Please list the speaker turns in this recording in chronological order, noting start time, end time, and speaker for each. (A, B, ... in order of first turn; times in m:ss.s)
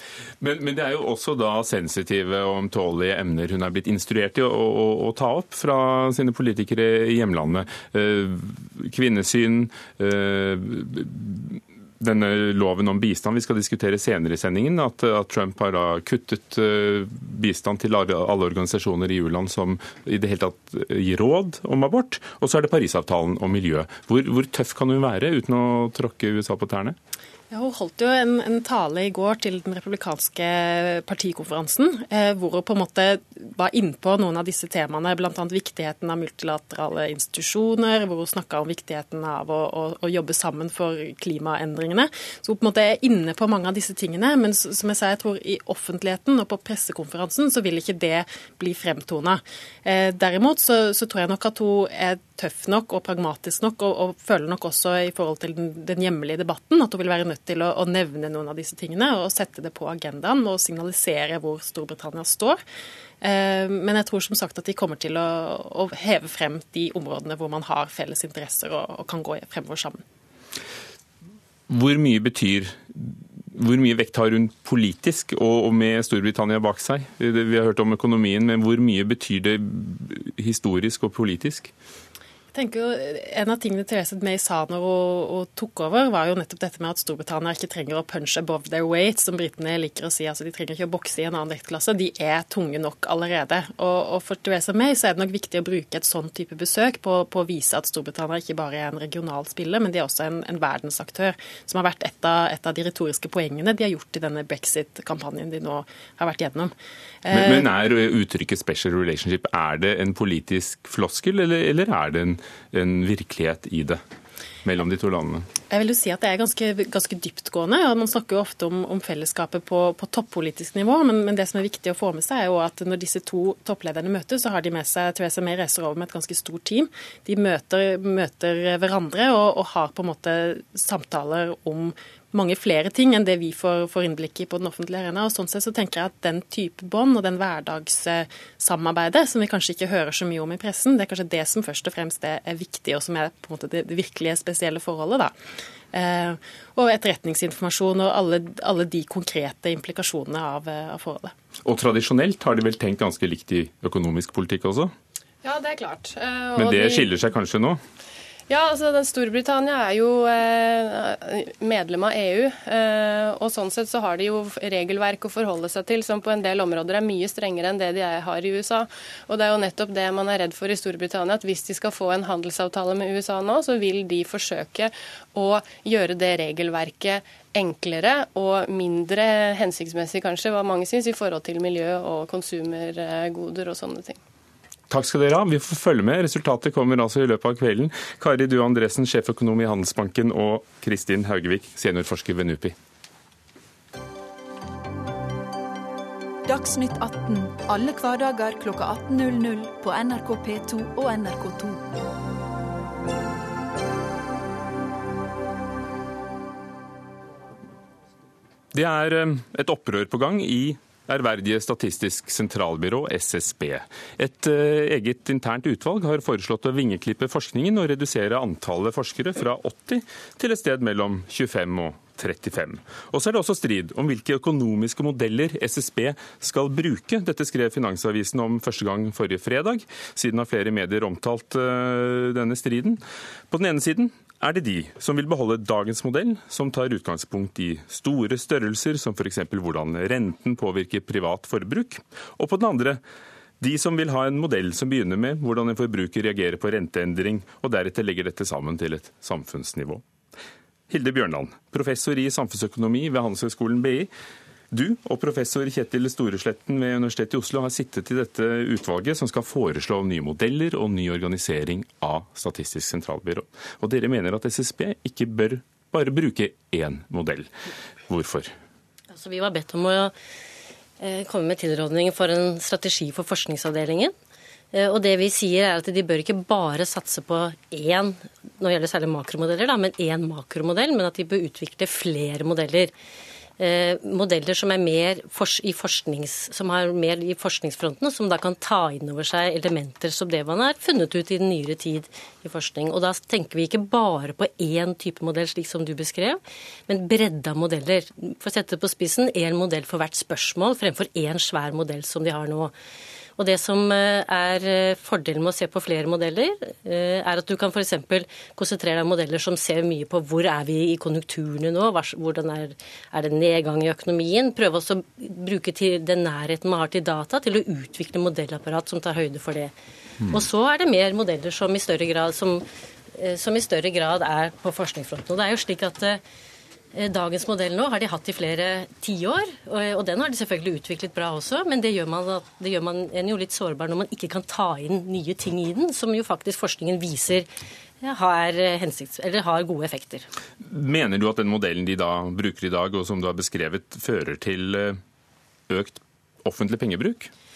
0:00.4-0:27.0 A
0:27.5-1:02.6 B
1:03.2-1:10.0 B
1:11.7-1:21.7 A
1:22.5-1:46.7 B
1:47.2-1:47.7 B
1:47.3-1:54.0 A
1:54.6-1:55.5 A
1:55.7-2:25.3 B
2:25.9-2:31.3 B
2:31.6-2:34.9 A
2:35.4-2:37.1 C
2:36.6-2:37.8 A
2:38.5-3:04.2 C
3:04.9-3:12.8 A
3:16.5-3:21.8 D
3:28.7-4:03.0 A
4:03.6-4:10.0 A
4:10.9-4:14.1 A
4:14.7-4:27.5 A
4:28.1-4:28.5 A
4:29.1-4:30.1 E
4:31.0-4:34.1 E
4:34.7-4:42.9 E
4:43.6-5:02.7 E
5:03.4-5:19.7 E
5:20.3-5:26.2 E
5:26.9-5:37.5 E
5:38.0-5:40.3 E
5:40.6-5:45.0 A
5:45.7-5:47.3 A